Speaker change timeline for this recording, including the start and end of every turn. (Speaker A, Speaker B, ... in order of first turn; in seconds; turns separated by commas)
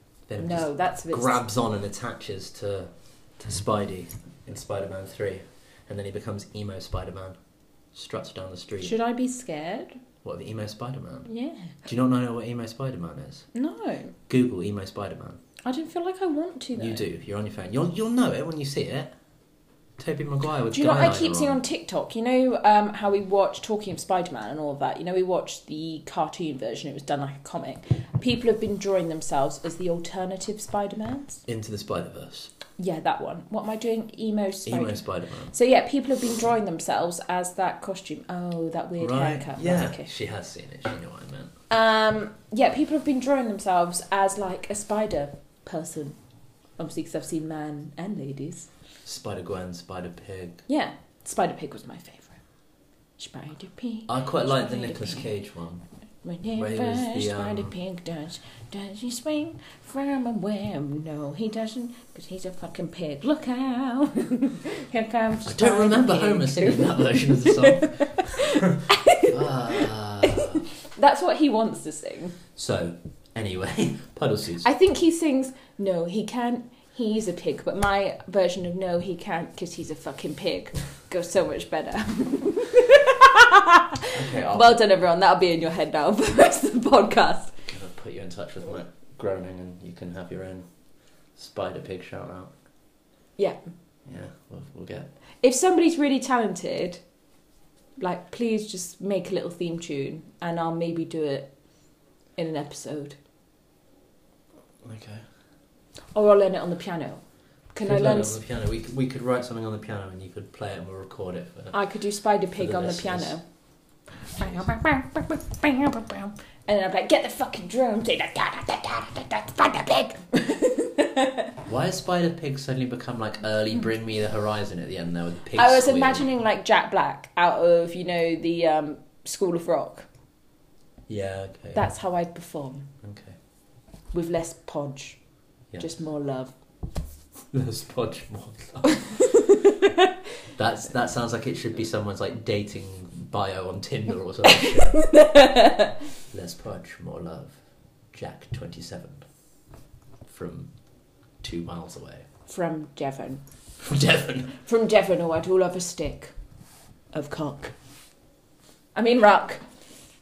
Speaker A: 0.3-7.4, Speaker B: 0.4-1.4, Speaker A: 7.9-8.9, Speaker B: 8.8-10.0, Speaker A: 10.2-11.3, Speaker B: 11.3-11.8, Speaker A: 11.8-13.5, Speaker B: 13.5-14.2, Speaker A: 14.3-15.4, Speaker B: 15.7-17.0, Speaker A: 16.8-19.1, Speaker A: 20.0-21.6, Speaker B: 20.7-31.4, Speaker A: 31.5-32.5, Speaker B: 32.8-40.1, Speaker A: 34.7-35.5, Speaker A: 39.0-41.5, Speaker B: 41.7-46.2, Speaker B: 46.8-48.7, Speaker A: 49.0-50.6, Speaker B: 50.7-52.4, Speaker B: 53.2-55.3, Speaker A: 54.1-55.9, Speaker B: 56.2-72.4, Speaker A: 56.5-57.7, Speaker A: 65.5-70.6, Speaker A: 72.5-74.7, Speaker B: 74.6-87.5, Speaker A: 84.1-84.8, Speaker A: 87.7-90.7, Speaker A: 91.4-92.5, Speaker A: 94.1-95.1, Speaker B: 95.4-97.0, Speaker B: 98.0-101.5, Speaker B: 102.4-103.2, Speaker A: 104.8-105.2, Speaker B: 106.1-107.2, Speaker B: 107.7-108.4, Speaker A: 107.8-111.8, Speaker B: 111.7-113.4, Speaker A: 112.6-113.4, Speaker B: 114.3-121.6, Speaker A: 114.4-114.7, Speaker A: 121.6-126.3, Speaker B: 125.6-130.1, Speaker A: 131.1-131.8, Speaker B: 131.8-132.9, Speaker A: 133.0-133.4, Speaker B: 134.1-135.2, Speaker B: 135.8-136.5, Speaker A: 137.5-139.1, Speaker B: 139.0-140.1, Speaker A: 140.6-145.0, Speaker B: 144.5-146.0, Speaker A: 146.3-147.6, Speaker A: 148.1-149.2, Speaker A: 150.3-150.7, Speaker A: 151.4-152.3, Speaker B: 152.5-153.4, Speaker A: 153.8-154.5, Speaker B: 154.6-156.3, Speaker B: 157.1-157.7, Speaker B: 158.9-159.7